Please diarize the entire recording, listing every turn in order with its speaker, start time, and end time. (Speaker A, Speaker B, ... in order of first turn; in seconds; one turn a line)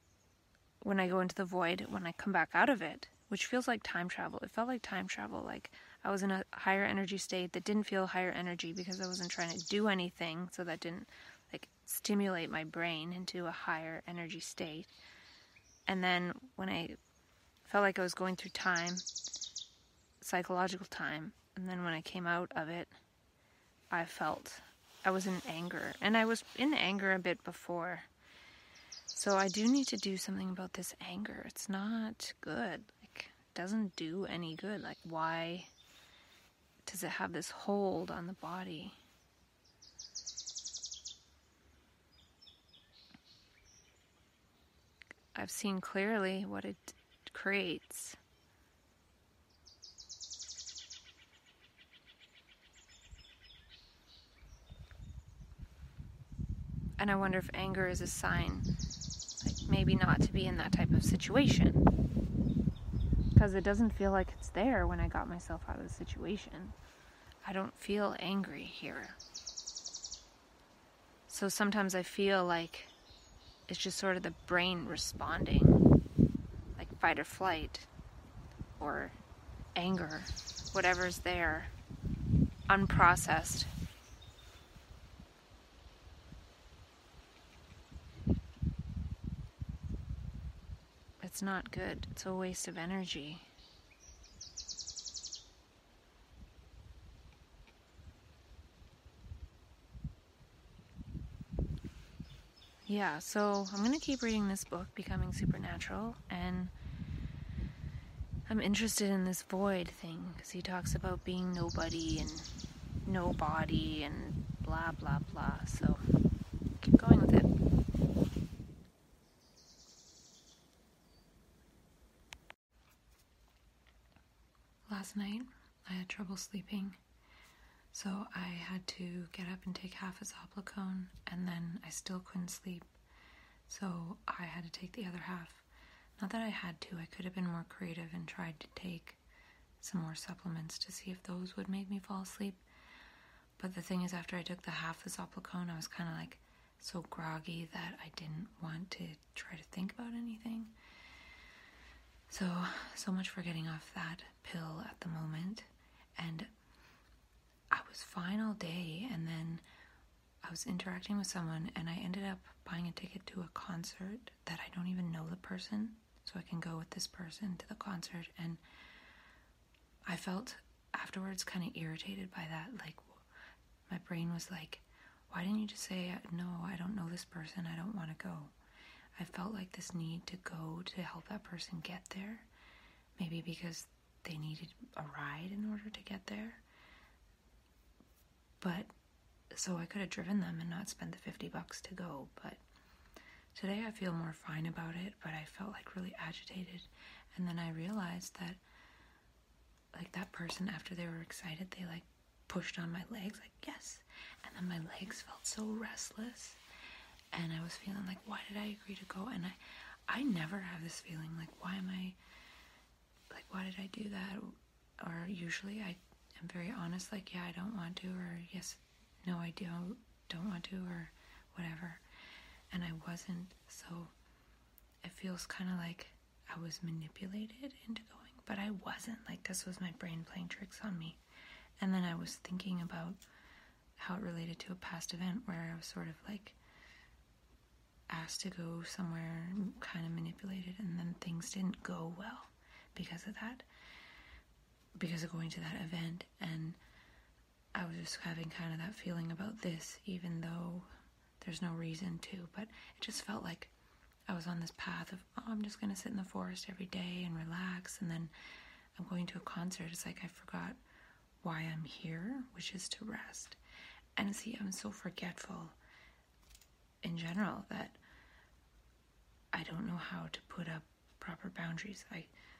Speaker A: 0.8-14.9
Speaker A: 15.8-17.0
Speaker A: 17.6-19.1
Speaker A: 20.2-22.9
Speaker A: 23.9-28.1
Speaker A: 29.1-35.7
Speaker A: 36.8-39.0
Speaker A: 45.3-48.2
Speaker A: 57.0-58.7
Speaker A: 59.4-61.8
Speaker A: 63.4-66.7
Speaker A: 67.4-69.2
Speaker A: 71.3-72.9
Speaker A: 73.7-75.8
Speaker A: 76.8-77.9
Speaker A: 78.8-79.2
Speaker A: 79.8-81.7
Speaker A: 82.7-83.7
Speaker A: 91.2-93.5
Speaker A: 102.9-106.7
Speaker A: 108.5-112.5
Speaker A: 113.0-116.0
Speaker A: 116.8-117.5
Speaker A: 124.9-127.0
Speaker A: 127.9-132.9
Speaker A: 133.7-135.6
Speaker A: 136.2-139.2
Speaker A: 139.8-142.6
Speaker A: 143.6-150.7
Speaker A: 152.3-155.7
Speaker A: 156.2-156.5
Speaker A: 157.7-159.6
Speaker A: 160.4-168.6
Speaker A: 170.1-173.2
Speaker A: 173.9-178.5
Speaker A: 179.2-182.5
Speaker A: 183.2-186.6
Speaker A: 188.6-188.9
Speaker A: 189.5-192.6
Speaker A: 193.5-198.6
Speaker A: 199.9-206.6
Speaker A: 207.3-209.6
Speaker A: 210.1-212.2
Speaker A: 213.3-222.0
Speaker A: 222.7-224.1
Speaker A: 225.0-231.2
Speaker A: 231.8-233.2
Speaker A: 234.0-236.6
Speaker A: 238.1-243.7
Speaker A: 245.0-246.8
Speaker A: 247.7-250.9
Speaker A: 251.4-253.7
Speaker A: 254.3-258.3
Speaker A: 259.0-260.8
Speaker A: 261.4-263.6
Speaker A: 264.2-265.8
Speaker A: 267.0-268.0
Speaker A: 269.5-272.3